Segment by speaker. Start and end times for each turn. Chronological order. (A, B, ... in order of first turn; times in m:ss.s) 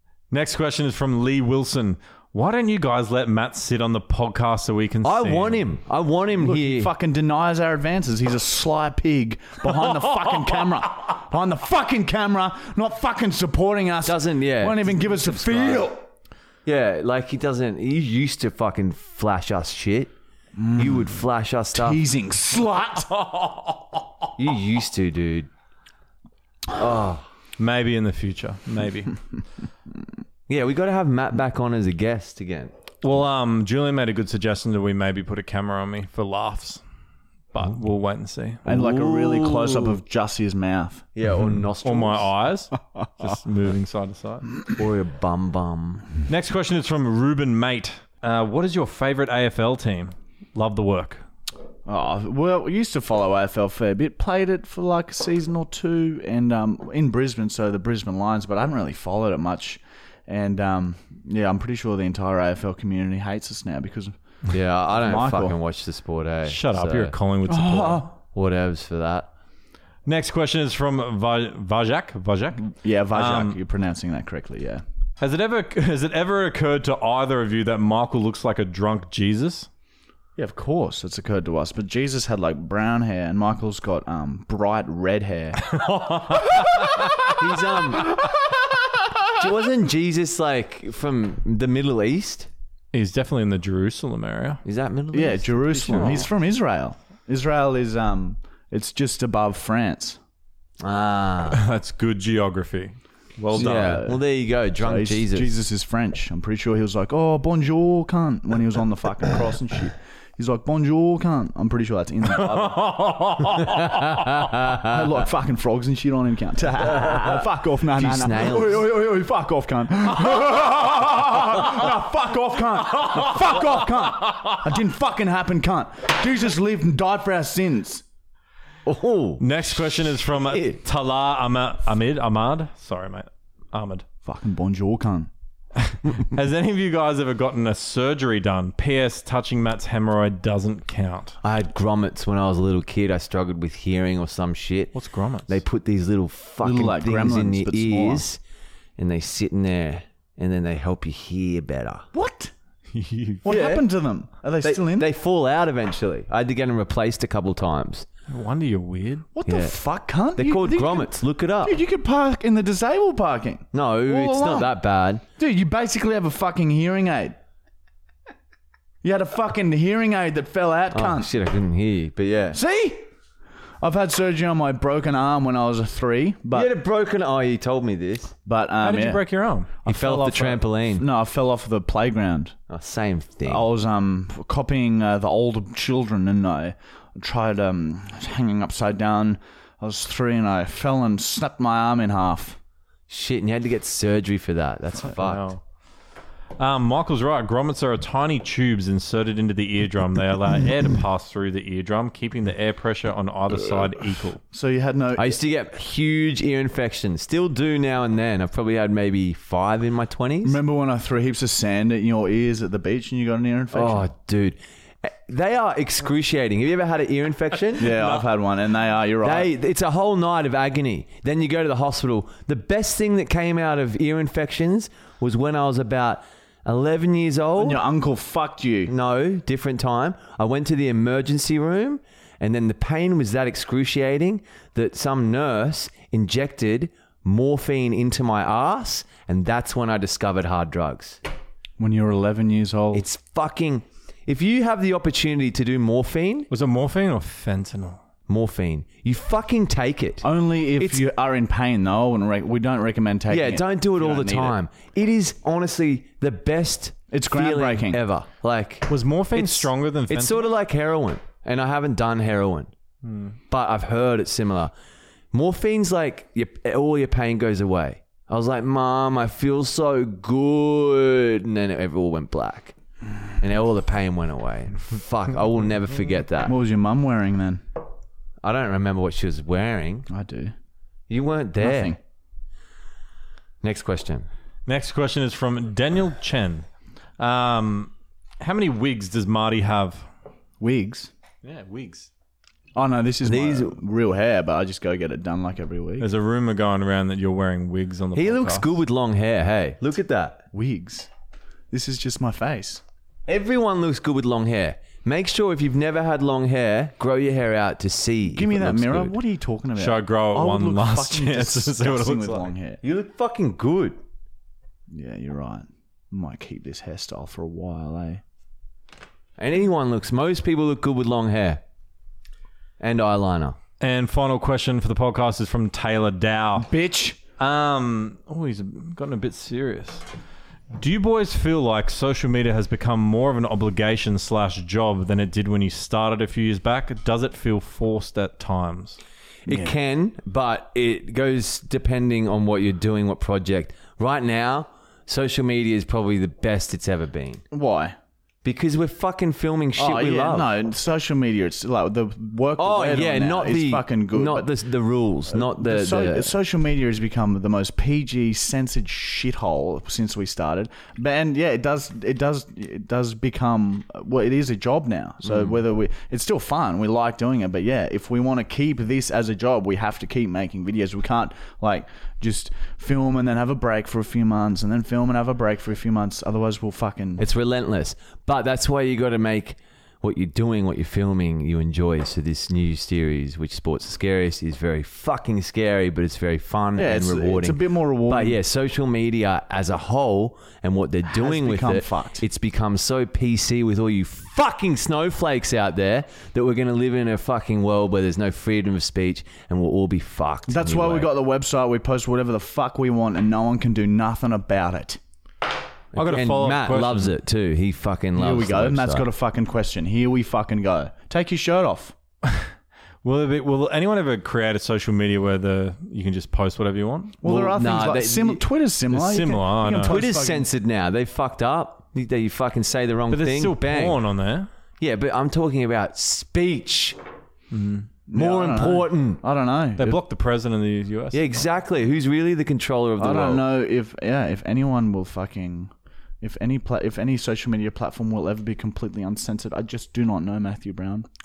0:00.3-0:05.6 A
0:05.0-0:06.9 B
0:06.4-0:16.0 C
0:14.0-0:15.9 B
0:16.7-0:20.1 B
0:20.6-0:21.2 C
0:20.8-0:22.0 B
0:21.7-0:23.1 C
0:24.4-0:25.5 B
0:26.7-0:27.3 B
0:27.6-0:29.2 A
0:30.5-0:32.7 B
0:33.0-0:36.8 A
0:37.5-0:38.6 A
0:38.6-0:41.0 C
0:38.7-0:40.0 B
0:41.2-0:42.3 B
0:41.8-0:44.6 A
0:44.8-0:46.1 B
0:46.3-0:51.2 A
0:51.9-1:04.2 C
1:04.5-1:07.2 B
1:04.9-1:05.6 C
1:06.5-1:08.1 A
1:07.5-1:08.1 C
1:08.3-1:09.3 B
1:10.1-1:13.6 A
1:12.6-1:14.8 C
1:15.2-1:19.7 A
1:20.4-1:25.6 C
1:25.6-1:27.3 A
1:27.2-1:28.2 B
1:29.3-1:32.5 B
1:32.9-1:34.6 A
1:34.6-1:36.3 B
1:35.1-1:40.2 C
1:40.8-1:41.6 B
1:41.5-1:44.1 A
1:43.5-1:44.2 C
1:43.5-1:45.5 B
1:44.8-1:52.9 C
1:52.4-1:54.3 A
1:53.6-1:55.0 B
1:54.7-2:08.0 C
1:56.8-1:58.9 B
2:03.1-2:04.5 A
2:08.8-2:10.8 B
2:09.4-2:14.0 A
2:14.2-2:15.3 C
2:15.8-2:21.4 A
2:21.4-2:28.4 B
2:24.9-2:25.6 A
2:26.6-2:28.2 C
2:29.0-2:32.1 B
2:32.1-2:32.5 C
2:32.9-2:33.5 A
2:33.4-2:35.1 C
2:33.5-2:33.9 B
2:34.6-2:38.1 B
2:38.3-2:39.3 A
2:39.3-2:44.8 C
2:39.5-2:39.8 B
2:40.4-2:41.8 B
2:43.7-2:45.2 B
2:45.4-2:47.4 C
2:49.0-2:51.3 C
2:50.9-2:52.6 B
2:52.5-2:53.1 C
2:53.8-2:56.7 C
2:56.5-2:58.3 B
2:58.5-2:59.2 C
2:58.8-3:00.6 A
2:59.9-3:01.1 B
3:00.0-3:02.6 C
3:02.7-3:03.7 B
3:03.5-3:12.6 C
3:13.1-3:15.5 B
3:15.2-3:15.6 A
3:16.6-3:24.4 A
3:24.5-3:25.4 C
3:25.2-3:30.6 B
3:30.4-3:34.1 C
3:33.7-3:38.0 B
3:37.8-3:39.5 C
3:39.2-3:47.8 B
3:47.6-3:48.9 C
3:48.9-4:01.2 B
4:01.8-4:03.0 C
4:02.9-4:06.5 B
4:06.5-4:08.0 A
4:08.3-4:11.1 B
4:10.2-4:14.6 C
4:13.3-4:22.7 B
4:17.1-4:18.0 C
4:18.9-4:20.5 A
4:23.0-4:23.4 A
4:23.5-4:24.7 B
4:25.3-4:32.8 B
4:33.4-4:36.6 B
4:36.5-4:37.6 C
4:38.4-4:40.1 B
4:40.1-4:40.5 C
4:41.1-4:42.0 B
4:41.6-4:42.0 C
4:43.6-4:44.3 B
4:44.7-4:46.7 A
4:47.2-4:50.1 A
4:50.6-4:51.1 C
4:51.4-4:52.1 A
4:52.8-4:56.1 C
4:53.2-4:53.8 B
4:56.0-4:58.7 A
4:58.1-5:00.4 B
5:00.5-5:01.1 C
5:01.7-5:02.8 C
5:03.3-5:09.2 B
5:08.3-5:12.8 C
5:09.8-5:12.5 A
5:12.8-5:14.0 B
5:14.9-5:18.2 C
5:19.4-5:21.6 B
5:22.8-5:23.6 B
5:23.8-5:26.7 A
5:26.6-5:27.2 C
5:27.4-5:30.0 A
5:30.7-5:39.0 A
5:39.5-5:47.4 B
5:39.5-5:39.7 C
5:47.5-5:48.0 C
5:48.4-5:50.5 B
5:49.8-5:54.5 C
5:52.6-5:56.3 B
5:55.3-6:17.2 C
6:17.2-6:41.1 B
6:26.8-6:28.4 C
6:31.0-6:32.2 C
6:40.5-6:45.0 C
6:45.9-6:49.1 B
6:46.0-6:47.2 A
6:48.2-6:52.0 C
6:52.2-6:52.5 A
6:53.0-6:57.2 A
6:57.2-7:00.5 C
6:57.2-6:58.4 B
6:58.9-7:00.0 A
6:59.8-7:04.0 B
7:03.1-7:04.5 A
7:04.8-7:07.0 B
7:07.5-7:07.9 A
7:08.1-7:10.0 C
7:08.2-7:09.2 B
7:09.8-7:11.5 A
7:11.1-7:13.4 B
7:13.0-7:21.1 C